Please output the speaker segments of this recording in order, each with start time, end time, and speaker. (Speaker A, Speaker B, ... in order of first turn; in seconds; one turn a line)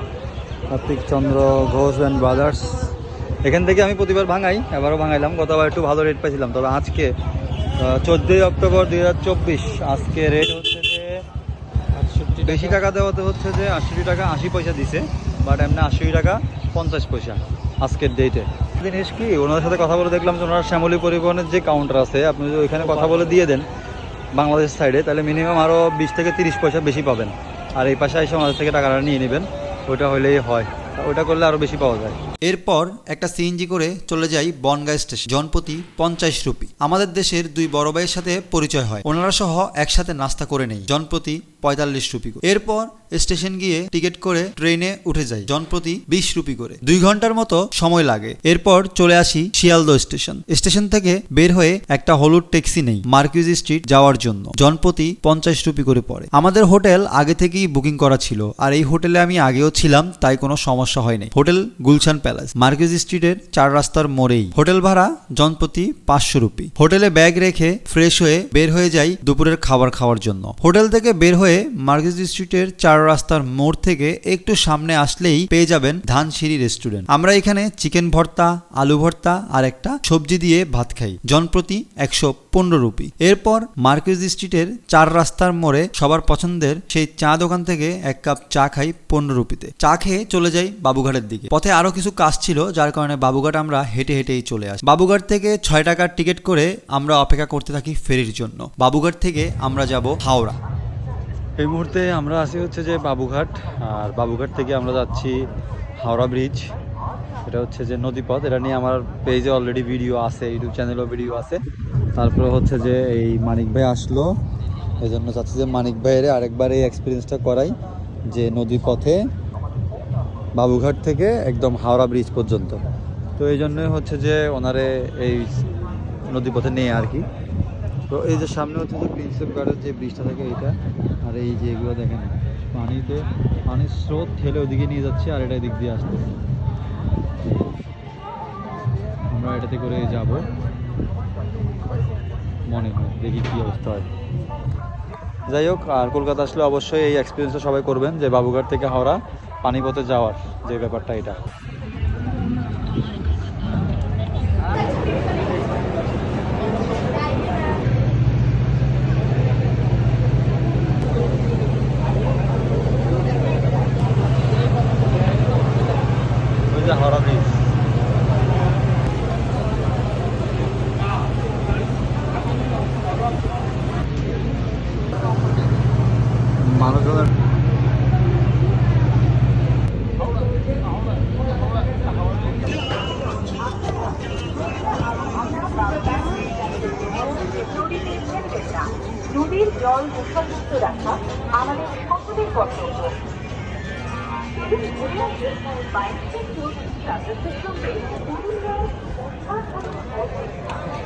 Speaker A: 0.7-2.9
Speaker A: 3.4-7.1
Speaker A: 7.8-11.2
Speaker A: 12.0-23.6
Speaker B: 12.0-12.8
Speaker B: 22.7-23.5
Speaker A: 24.4-32.1
Speaker B: 32.4-100.6
Speaker A: 101.6-105.3
Speaker A: 106.0-106.6
Speaker A: 107.5-111.6
Speaker A: 112.2-114.2
Speaker A: 115.0-117.7
Speaker A: 118.3-119.2
Speaker A: 120.6-122.8
Speaker A: 123.4-127.2
Speaker A: 128.1-130.7
Speaker A: 131.3-136.2
Speaker B: 131.4-132.1
Speaker A: 139.3-140.5
Speaker A: 142.7-144.1
Speaker A: 145.5-151.4
Speaker A: 166.7-167.7
Speaker A: 176.6-177.3
Speaker C: 185.1-193.2
Speaker C: 194.6-200.6